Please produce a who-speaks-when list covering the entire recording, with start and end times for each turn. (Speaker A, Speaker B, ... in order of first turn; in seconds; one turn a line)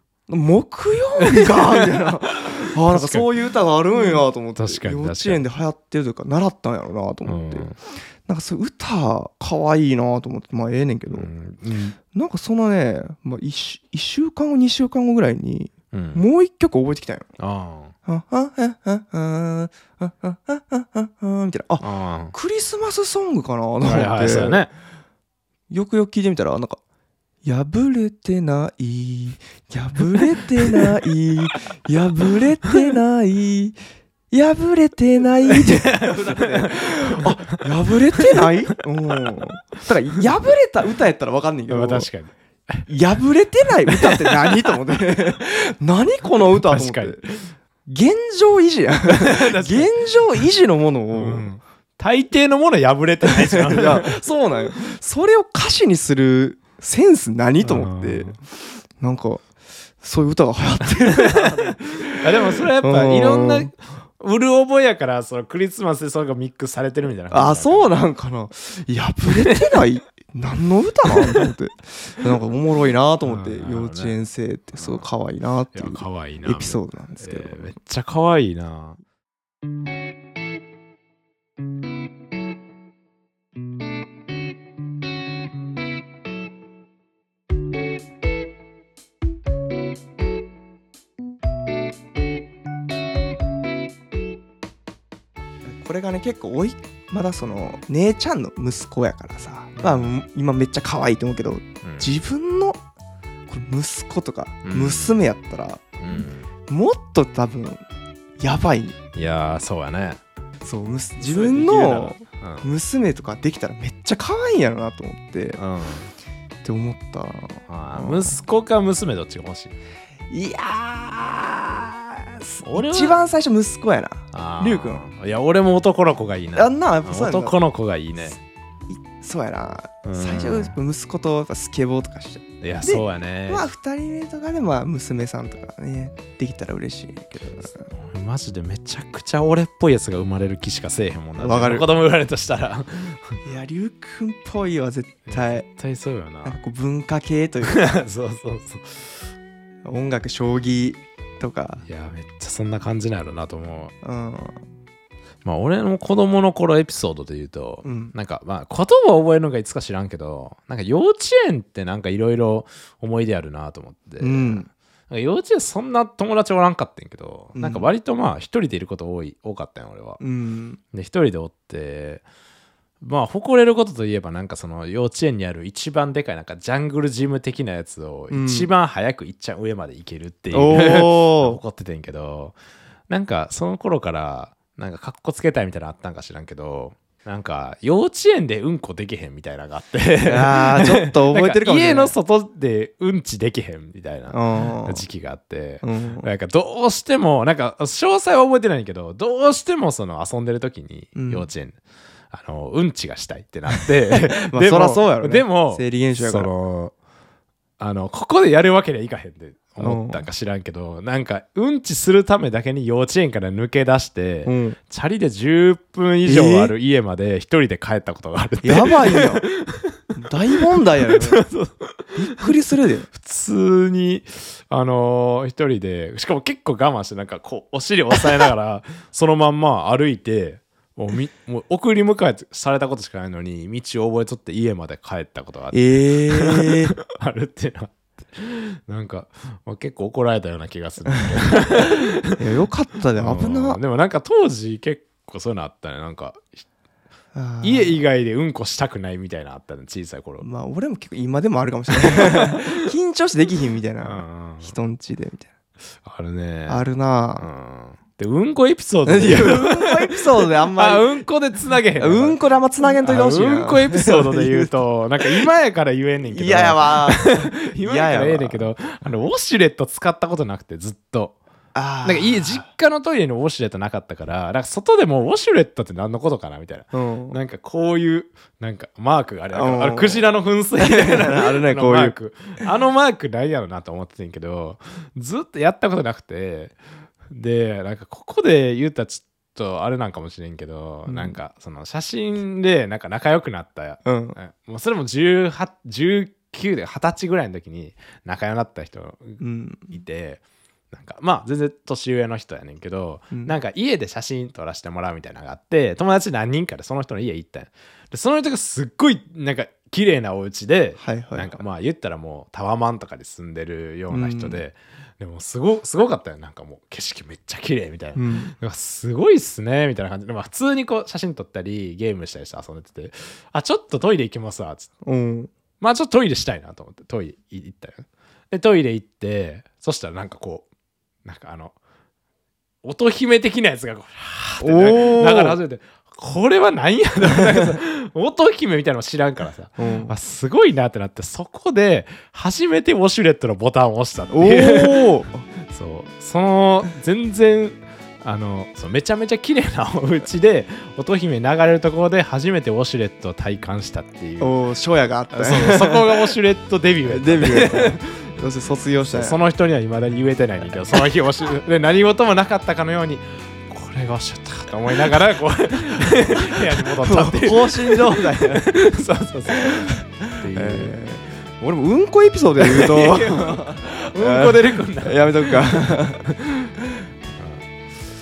Speaker A: 0.3-11.3
Speaker B: 1.4-2.0
Speaker B: 2.9-3.3
Speaker B: 4.0-5.4
Speaker B: 7.3-7.8
Speaker B: 11.1-12.0
Speaker A: 12.1-17.3
Speaker B: 15.9-16.2
Speaker B: 17.4-17.9
Speaker A: 18.1-24.7
Speaker B: 21.8-22.3
Speaker B: 23.8-24.7
Speaker A: 25.7-26.8
Speaker A: 27.4-33.8
Speaker A: 34.3-42.1
Speaker B: 35.5-37.6
Speaker B: 38.2-38.5
Speaker B: 41.7-42.9
Speaker A: 42.9-47.2
Speaker B: 43.9-44.8
Speaker B: 46.5-47.5
Speaker A: 47.9-51.5
Speaker B: 49.1-49.9
Speaker B: 51.1-54.2
Speaker A: 53.2-59.5
Speaker B: 57.6-58.4
Speaker A: 60.0-63.7
Speaker B: 61.1-67.9
Speaker A: 67.3-77.7
Speaker B: 69.5-69.7
Speaker B: 71.2-71.5
Speaker B: 73.2-74.2
Speaker B: 74.8-75.1
Speaker B: 75.7-79.0
Speaker A: 95.7-102.8
Speaker B: 99.8-100.1
Speaker B: 101.8-102.1
Speaker A: 103.5-107.8
Speaker B: 104.6-105.2
Speaker B: 106.0-106.5
Speaker A: 108.4-109.0
Speaker B: 109.2-110.2
Speaker A: 110.6-115.6
Speaker B: 111.2-112.7
Speaker B: 115.6-116.1
Speaker A: 116.6-118.4
Speaker B: 117.7-119.8
Speaker A: 120.3-125.0
Speaker B: 122.6-123.2
Speaker B: 124.3-128.4
Speaker A: 126.5-127.6
Speaker A: 128.9-137.9
Speaker B: 130.0-130.8
Speaker B: 132.6-133.7
Speaker B: 137.9-143.4
Speaker A: 141.4-141.9
Speaker A: 143.4-145.7
Speaker B: 145.3-146.6
Speaker A: 146.4-147.9
Speaker B: 147.7-149.1
Speaker A: 149.8-151.8
Speaker B: 151.8-153.9
Speaker A: 154.0-154.6
Speaker B: 155.4-170.2
Speaker A: 157.8-158.2
Speaker A: 164.2-164.7
Speaker A: 167.6-167.9
Speaker A: 170.2-170.8
Speaker B: 170.9-172.2
Speaker B: 173.0-182.6
Speaker A: 178.3-178.7
Speaker A: 180.5-181.6
Speaker B: 183.1-201.8
Speaker A: 190.2-192.2
Speaker A: 194.3-195.1
Speaker A: 195.8-196.3
Speaker A: 201.2-201.5
Speaker B: 202.3-206.9
Speaker A: 203.7-206.5
Speaker B: 207.8-220.0
Speaker A: 209.8-210.3
Speaker A: 214.5-214.8
Speaker A: 216.2-216.7
Speaker A: 218.6-219.5
Speaker A: 220.1-221.4
Speaker B: 221.1-222.5
Speaker A: 222.2-223.1
Speaker B: 223.1-242.4
Speaker A: 235.7-236.9
Speaker A: 241.8-243.8
Speaker B: 243.2-246.6
Speaker A: 247.3-248.0
Speaker B: 247.6-250.5
Speaker A: 250.4-255.5
Speaker B: 251.9-252.8
Speaker B: 254.0-254.8
Speaker B: 256.0-256.9
Speaker A: 256.7-257.5
Speaker B: 257.4-262.4
Speaker A: 259.1-261.1
Speaker A: 262.0-265.5
Speaker B: 263.0-271.4
Speaker A: 266.2-268.7
Speaker A: 271.7-272.7
Speaker B: 272.0-286.8
Speaker A: 276.9-277.4
Speaker A: 279.5-282.2
Speaker B: 287.3-324.9
Speaker A: 291.1-291.4
Speaker A: 294.1-294.4
Speaker A: 299.4-300.0
Speaker A: 303.3-303.6
Speaker A: 311.0-311.6
Speaker A: 314.1-314.6
Speaker A: 318.1-318.6
Speaker A: 325.0-325.5
Speaker B: 325.8-330.7
Speaker B: 331.2-331.8
Speaker B: 332.8-345.1
Speaker A: 334.6-335.6
Speaker A: 337.4-337.7
Speaker A: 339.8-340.2
Speaker A: 344.3-345.4
Speaker B: 345.6-354.6
Speaker A: 354.4-356.2
Speaker B: 355.3-358.3
Speaker A: 357.1-359.4
Speaker B: 359.0-370.9
Speaker A: 366.4-368.7
Speaker A: 369.6-376.3
Speaker B: 372.6-376.7
Speaker B: 377.4-377.7